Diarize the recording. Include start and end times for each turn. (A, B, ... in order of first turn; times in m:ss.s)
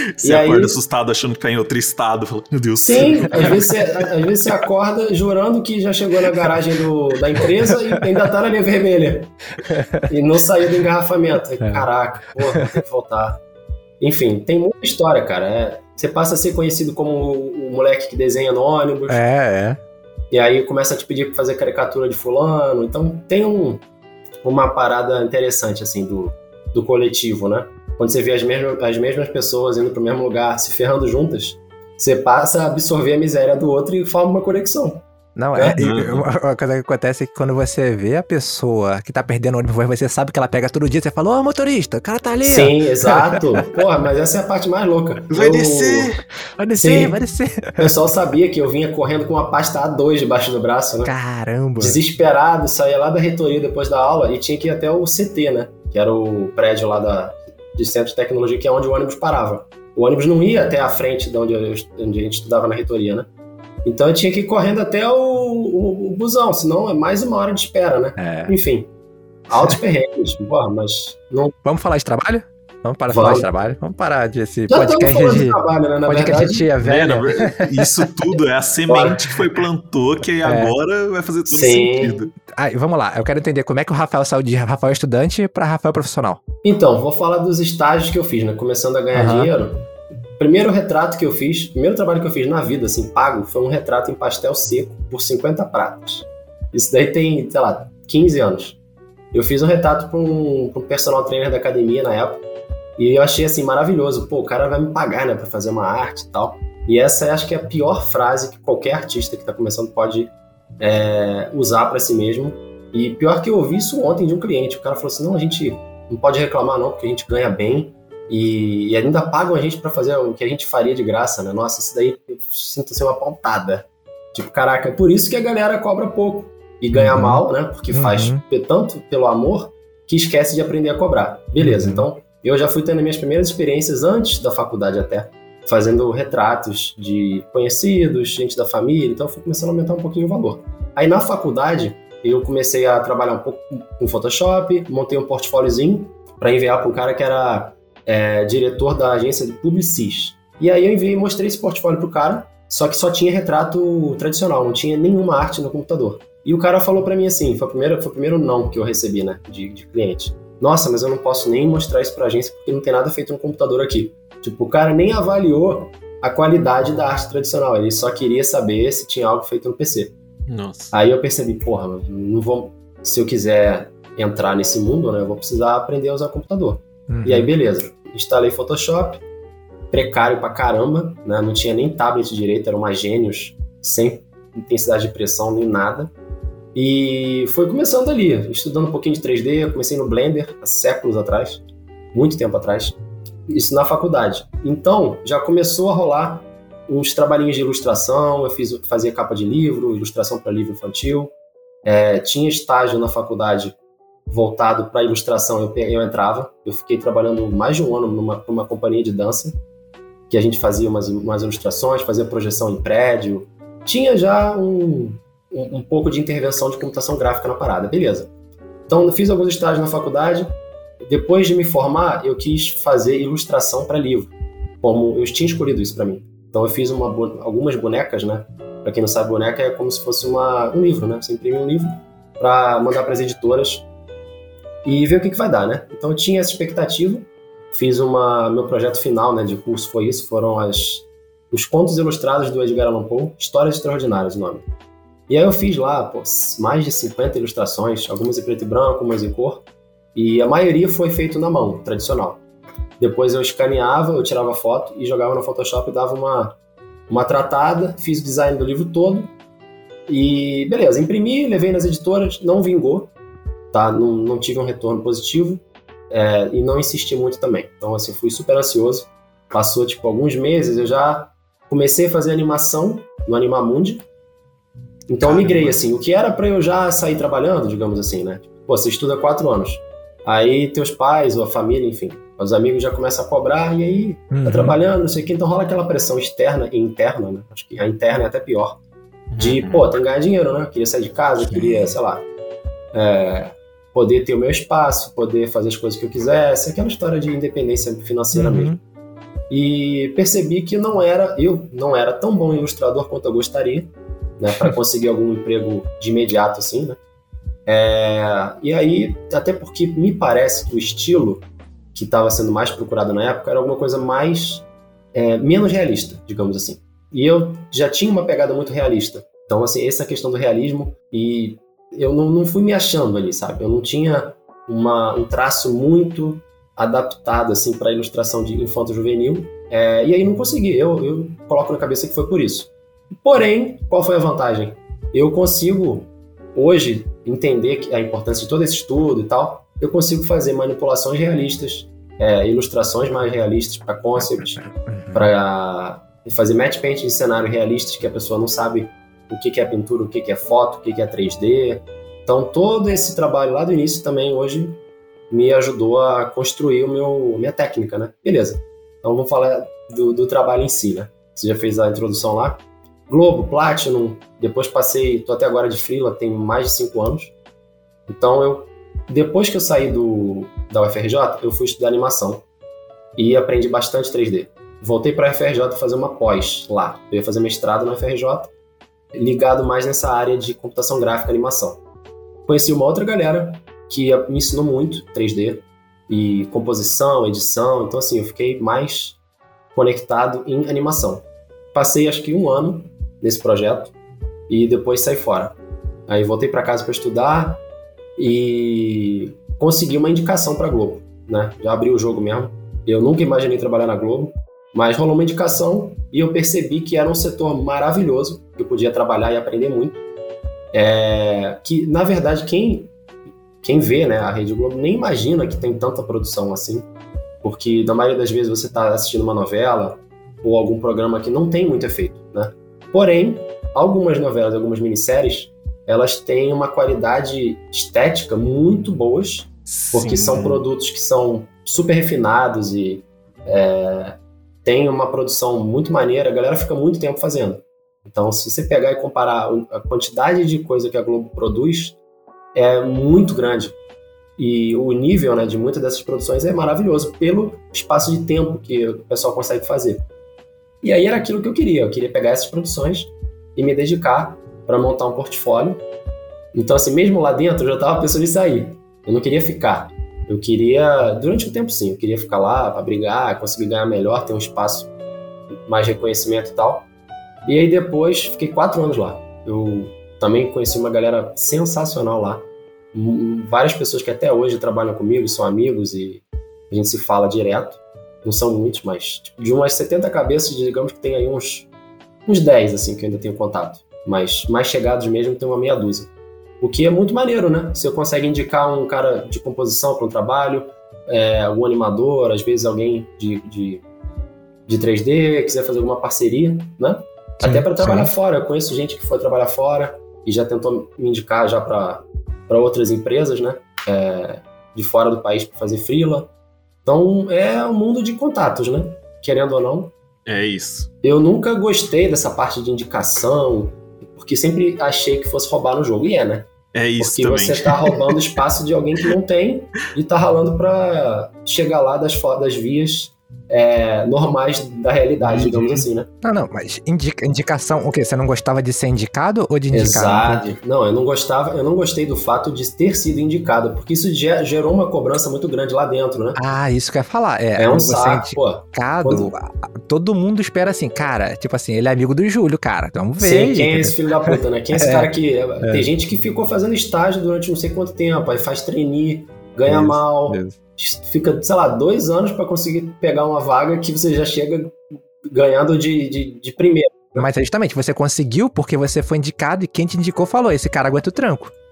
0:00.2-0:03.7 A
0:00.2-0:00.8 B
0:02.8-0:09.3 B
0:03.3-0:03.7 C
0:09.6-0:10.1 C
0:10.1-0:13.4 B
0:12.5-0:12.8 C
0:14.0-0:19.2 B
0:19.1-0:19.8 C
0:20.3-0:23.8 B
0:24.4-0:35.8 B
0:35.4-0:43.4 C
0:35.8-0:36.3 A
0:42.4-0:46.2 B
0:45.3-0:46.2 A
0:46.6-0:48.0 C
0:46.8-0:47.2 B
0:47.8-0:51.1 B
0:51.0-0:52.0 C
0:51.8-1:03.3 B
1:03.8-1:08.9 B
1:08.2-1:08.5 C
1:09.5-1:11.6 B
1:11.6-1:18.0 C
1:13.1-1:13.5 B
1:14.7-1:16.7 B
1:16.8-1:22.3 A
1:18.9-1:19.2 B
1:20.4-1:20.8 C
1:21.5-1:22.2 B
1:22.5-1:26.4 C
1:26.6-1:29.9 B
1:29.1-1:29.5 C
1:30.4-1:38.8 B
1:39.3-1:42.4 B
1:43.0-2:50.2 B
2:06.9-2:08.4 C
2:11.6-2:12.1 C
2:50.5-2:50.9 A
2:50.9-2:59.2 B
2:57.1-2:57.5 C
2:59.9-3:06.1 B
3:06.8-3:11.6 B
3:12.1-3:13.0 B
3:13.5-3:21.3 B
3:21.8-3:23.8 B
3:24.3-3:29.6 B
3:30.3-3:38.3 B
3:38.9-3:40.5 B
3:41.0-3:53.9 B
3:54.8-4:04.6 B
4:05.3-4:09.6 B
4:10.2-4:12.4 B
4:13.0-4:16.6 B
4:17.1-4:19.3 B
4:20.1-4:23.1 B
4:23.7-4:34.0 B
4:35.1-4:48.8 B
4:35.2-4:35.7 A
4:44.3-4:44.8 C
4:49.3-4:49.9 A
4:49.4-4:52.2 B
4:51.5-4:52.0 C
4:52.9-4:58.8 B
4:58.3-4:58.8 C
4:59.5-5:07.0 B
5:07.7-6:07.3 B
5:44.2-5:45.3 C
6:08.1-6:12.4 B
6:13.2-6:18.5 B
6:19.1-6:21.8 B
6:22.5-6:29.2 B
6:29.7-6:33.9 B
6:34.5-6:35.6 B
6:36.1-6:37.6 B
6:38.2-6:50.0 B
6:50.7-6:52.9 B
6:53.6-6:56.9 B
6:57.4-7:22.0 B
7:09.7-7:10.7 A
7:22.5-7:23.8 B
7:24.4-7:30.0 B
7:30.8-7:35.8 B
7:36.5-7:44.9 B
7:45.7-7:46.9 B
7:47.4-8:01.7 B
8:02.3-8:13.8 B
8:14.7-8:26.3 B
8:17.4-8:18.1 C
8:26.8-8:29.9 B
8:30.3-8:30.9 A
8:31.0-8:46.1 B
8:36.7-8:38.2 A
8:45.4-8:50.6 C
8:49.7-8:56.4 B
8:56.4-9:05.9 C
8:57.6-8:59.3 B
9:03.2-9:17.3 B
9:09.7-9:10.6 C
9:17.2-9:21.5 C